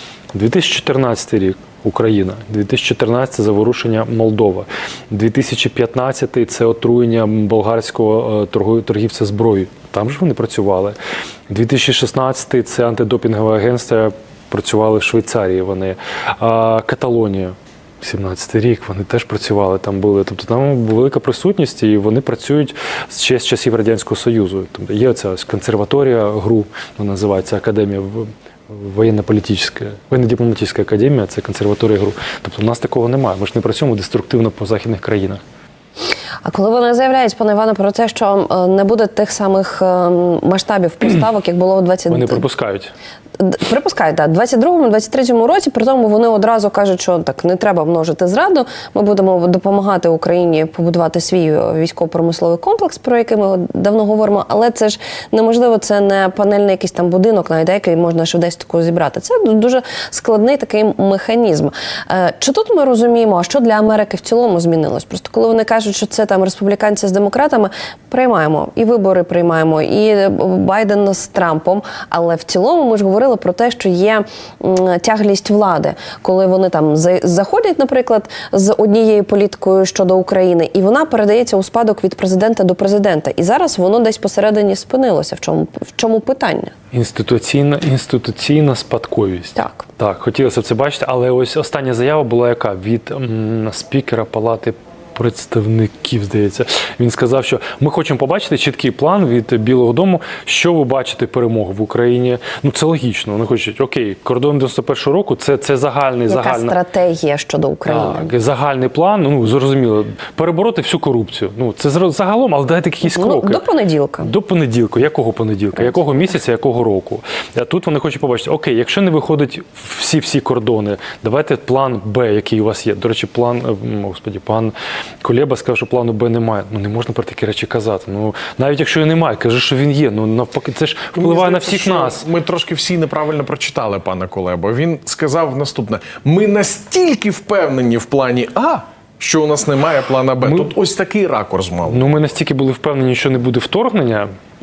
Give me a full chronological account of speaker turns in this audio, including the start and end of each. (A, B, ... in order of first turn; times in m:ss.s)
0:00.3-0:11.0 A
0:11.5-0:35.4 A
0:36.4-0:42.4 B
0:42.1-0:42.9 A
0:43.4-1:26.7 B
1:26.9-1:46.8 A
1:29.6-1:29.8 B
1:46.3-1:48.3 B
1:47.8-1:53.6 A
1:53.0-1:54.3 B
1:54.2-2:12.3 A
2:11.1-2:22.2 C
2:20.4-2:20.7 A
2:21.8-2:24.3 A